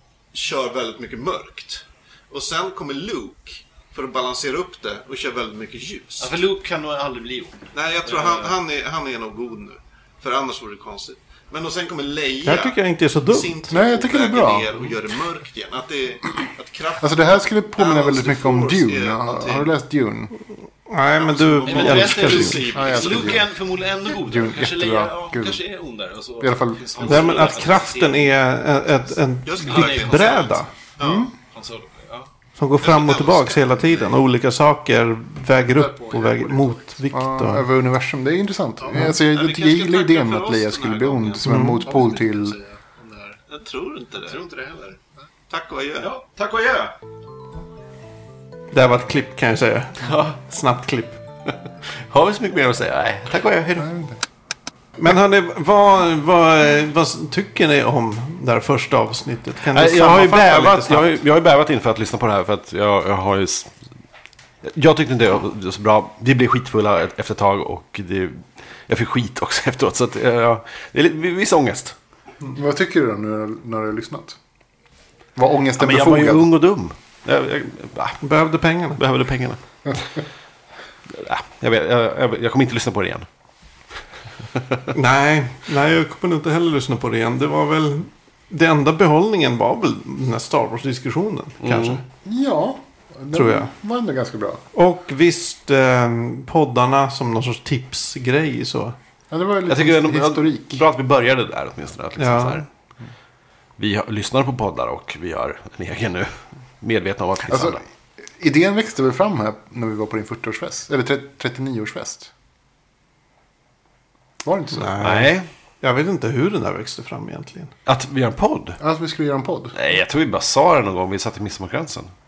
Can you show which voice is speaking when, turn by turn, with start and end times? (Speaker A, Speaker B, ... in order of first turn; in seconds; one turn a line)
Speaker A: 0.3-6.4
Speaker B: 6.2-8.5
Speaker A: 7.7-19.7
Speaker C: 12.4-13.7
Speaker D: 13.7-14.7
Speaker D: 17.0-20.3
Speaker C: 20.9-22.7
Speaker A: 21.1-23.4
Speaker B: 21.6-29.1
Speaker D: 22.6-25.6
Speaker D: 26.4-27.5
Speaker C: 27.0-30.7
Speaker A: 29.4-31.3
Speaker B: 29.7-30.5
Speaker D: 31.0-31.3
Speaker B: 31.3-32.3
Speaker C: 32.6-37.6
Speaker A: 32.8-34.2
Speaker E: 35.7-36.9
Speaker D: 37.1-42.6
Speaker A: 39.2-41.5
Speaker C: 41.4-41.8
Speaker E: 41.5-43.4
Speaker A: 43.5-44.4
Speaker B: 44.2-45.0
Speaker A: 45.5-46.1
Speaker B: 46.0-47.0
Speaker C: 48.7-51.2
Speaker F: 50.0-50.4
Speaker F: 52.0-53.9
Speaker D: 53.8-54.2
Speaker C: 55.0-61.1
Speaker F: 59.6-63.7
Speaker F: 64.6-72.0
Speaker D: 72.4-74.4
Speaker D: 75.3-76.5
Speaker F: 75.8-78.2
Speaker C: 78.2-79.0
Speaker F: 78.9-80.1
Speaker F: 81.1-83.2
Speaker C: 84.9-92.0
Speaker F: 91.6-92.0
Speaker D: 92.2-94.6
Speaker C: 93.3-93.7
Speaker C: 94.7-99.0
Speaker D: 99.3-100.8
Speaker F: 99.7-102.7
Speaker C: 102.2-102.6
Speaker F: 103.8-107.8
Speaker D: 107.5-112.3
Speaker D: 114.4-115.0
Speaker C: 114.7-117.7
Speaker F: 115.0-115.5
Speaker F: 117.8-118.8
Speaker D: 118.8-119.8
Speaker F: 119.7-122.1